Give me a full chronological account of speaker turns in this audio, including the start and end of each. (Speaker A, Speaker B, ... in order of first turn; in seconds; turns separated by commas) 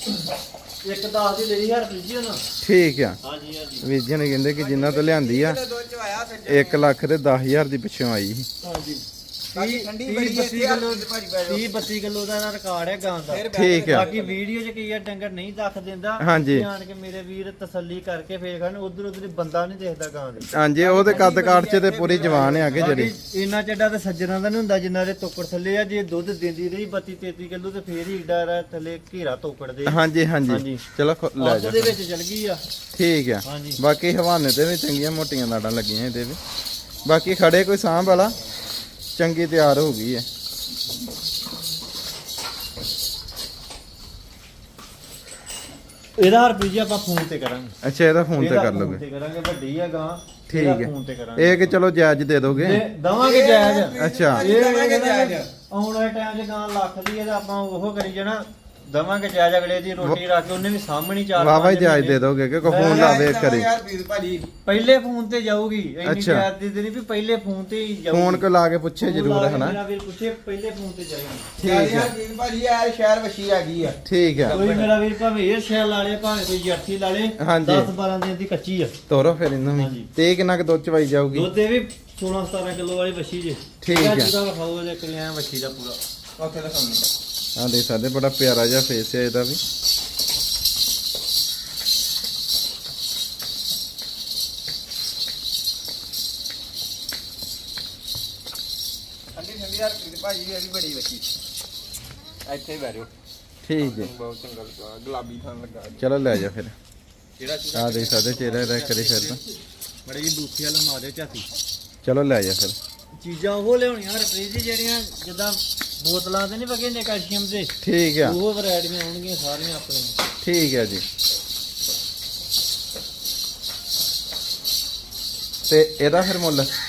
Speaker A: 0.8-2.4, Speaker B: 2.6-3.2, Speaker A: 3.2-3.9, Speaker B: 3.8-5.6, Speaker C: 4.5-6.9, Speaker B: 6.5-8.5, Speaker A: 8.6-20.5, Speaker C: 9.5-11.8, Speaker C: 13.3-14.4, Speaker B: 13.5-14.1, Speaker B: 16.2-16.7, Speaker B: 20.5-23.1, Speaker C: 20.8-23.0, Speaker A: 22.8-30.8, Speaker B: 29.9-32.0, Speaker A: 31.4-32.6, Speaker B: 32.9-36.4, Speaker A: 33.4-33.8, Speaker B: 37.0-38.4, Speaker B: 39.2-40.3, Speaker A: 46.2-47.8, Speaker B: 47.8-49.0, Speaker A: 48.4-51.8, Speaker B: 50.5-52.8, Speaker A: 52.6-63.3, Speaker C: 53.1-55.5, Speaker B: 54.0-54.5, Speaker B: 61.4-63.7, Speaker C: 62.8-64.5, Speaker A: 64.7-68.5, Speaker B: 66.0-66.5, Speaker B: 68.1-69.8, Speaker A: 69.0-71.5, Speaker B: 71.6-72.1, Speaker C: 71.6-75.0, Speaker B: 74.0-74.6, Speaker A: 74.5-79.0, Speaker B: 77.4-77.9, Speaker B: 79.1-81.5, Speaker A: 79.8-80.1, Speaker A: 81.3-86.0, Speaker B: 83.8-84.3, Speaker C: 86.4-87.0, Speaker B: 87.6-89.6, Speaker C: 99.3-101.3, Speaker C: 102.5-103.1, Speaker B: 103.7-104.1, Speaker C: 103.8-106.0, Speaker B: 106.0-106.7, Speaker A: 107.4-109.4, Speaker B: 107.7-109.4, Speaker A: 110.1-111.5, Speaker B: 112.0-112.8, Speaker A: 113.2-120.2, Speaker B: 117.8-118.4, Speaker B: 120.4-121.0, Speaker B: 125.7-126.7